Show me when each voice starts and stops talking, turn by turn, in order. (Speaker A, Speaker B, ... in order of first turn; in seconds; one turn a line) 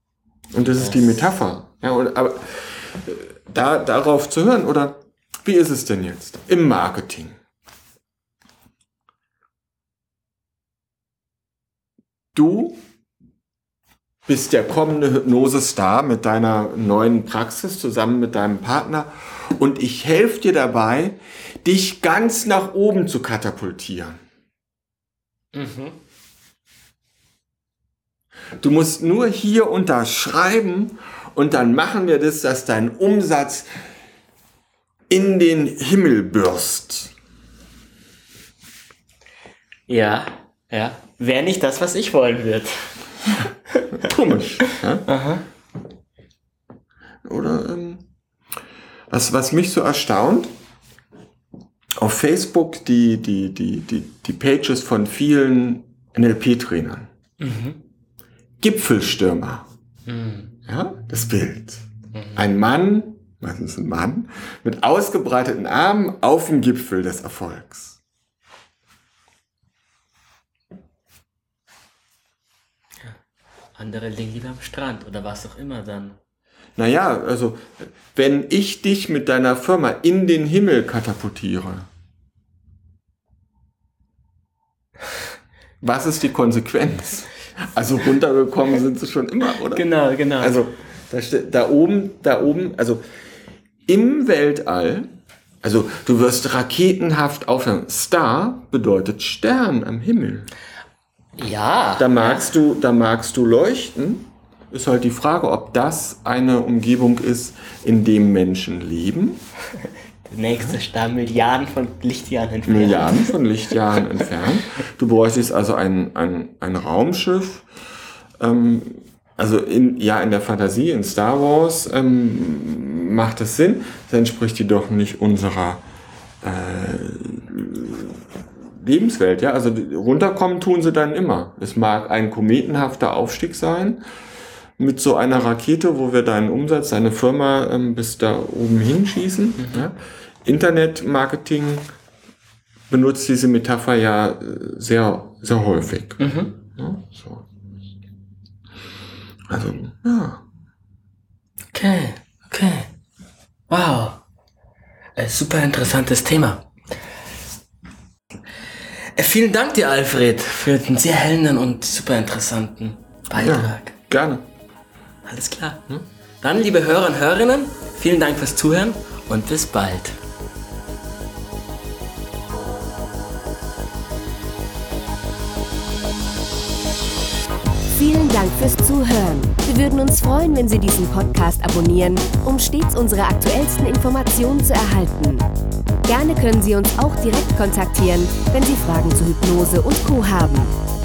Speaker A: 0.5-7.4
Speaker B: 0.8-1.3
Speaker A: 12.3-12.8
Speaker A: 14.2-24.2
Speaker B: 25.5-25.9
Speaker A: 28.6-33.7
Speaker A: 35.1-37.1
Speaker B: 39.9-43.9
Speaker A: 43.9-45.1
Speaker B: 45.1-45.4
Speaker A: 47.2-48.1
Speaker A: 49.1-50.5
Speaker A: 52.0-57.1
Speaker B: 57.4-57.8
Speaker A: 58.6-59.7
Speaker B: 60.1-60.5
Speaker A: 60.7-68.0
Speaker B: 62.1-62.4
Speaker B: 73.7-76.2
Speaker A: 76.8-81.9
Speaker A: 85.8-93.0
Speaker B: 89.7-90.6
Speaker A: 93.8-95.1
Speaker A: 95.6-100.5
Speaker B: 101.4-102.5
Speaker A: 102.0-109.4
Speaker B: 109.7-113.3
Speaker A: 112.7-117.6
Speaker A: 118.4-125.8
Speaker A: 126.4-128.2
Speaker A: 128.8-134.0
Speaker A: 134.8-141.8
Speaker B: 139.6-139.9
Speaker A: 142.9-147.4
Speaker B: 146.2-146.6
Speaker A: 149.5-150.4
Speaker B: 151.7-152.9
Speaker B: 153.7-154.2
Speaker B: 155.2-156.7
Speaker B: 159.1-163.9
Speaker A: 163.3-164.4
Speaker B: 165.2-165.8
Speaker B: 166.4-170.2
Speaker C: 177.9-185.4
Speaker C: 186.1-190.7